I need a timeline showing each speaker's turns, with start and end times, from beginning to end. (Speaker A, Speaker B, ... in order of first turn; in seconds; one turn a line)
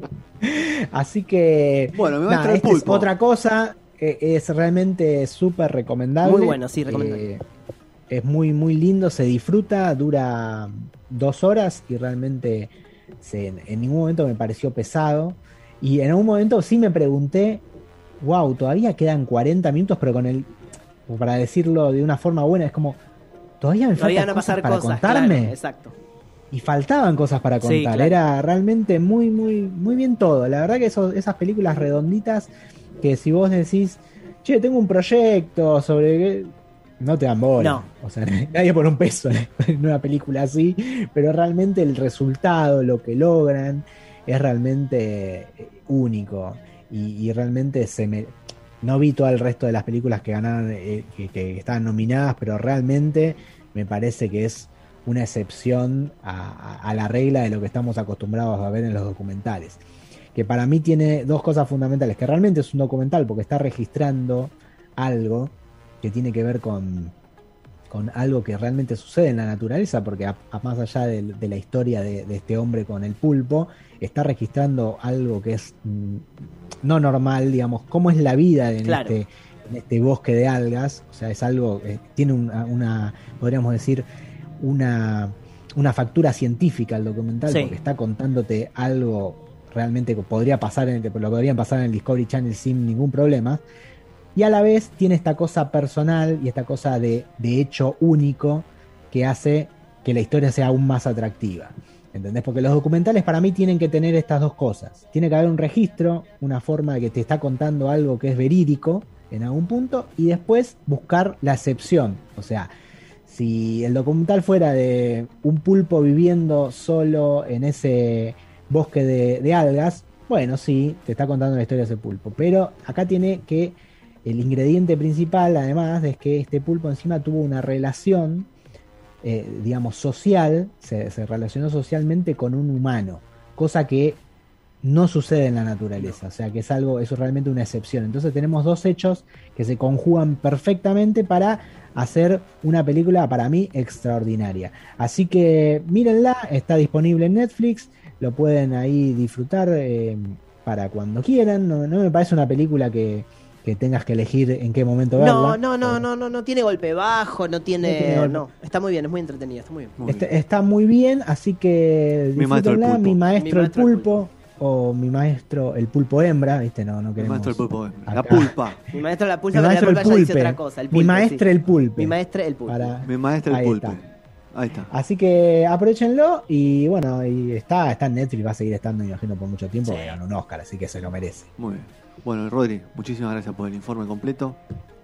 Speaker A: 0.4-7.4
Speaker B: 1.9-3.1
Speaker C: 6.2-7.3
Speaker A: 8.1-17.6
Speaker A: 18.2-20.5
Speaker A: 21.1-23.0
Speaker A: 23.6-25.6
Speaker C: 23.9-25.9
Speaker A: 26.5-59.8
Speaker C: 27.6-28.2
Speaker C: 37.6-37.9
Speaker A: 60.3-67.1
Speaker A: 67.9-76.3
Speaker A: 76.8-84.1
Speaker C: 78.8-79.2
Speaker A: 84.6-93.6
Speaker C: 87.5-87.8
Speaker A: 94.3-112.7
Speaker A: 113.2-128.5
Speaker A: 129.2-134.2
Speaker A: 134.8-156.1
Speaker C: 155.1-160.0
Speaker A: 157.8-158.4
Speaker B: 160.0-160.3
Speaker A: 160.0-168.5
Speaker B: 162.3-163.2
Speaker C: 163.3-164.2
Speaker B: 167.2-168.8
Speaker C: 168.9-172.9
Speaker A: 169.5-174.0
Speaker B: 173.0-174.9
Speaker A: 174.9-181.5
Speaker C: 179.8-180.2
Speaker B: 181.6-184.6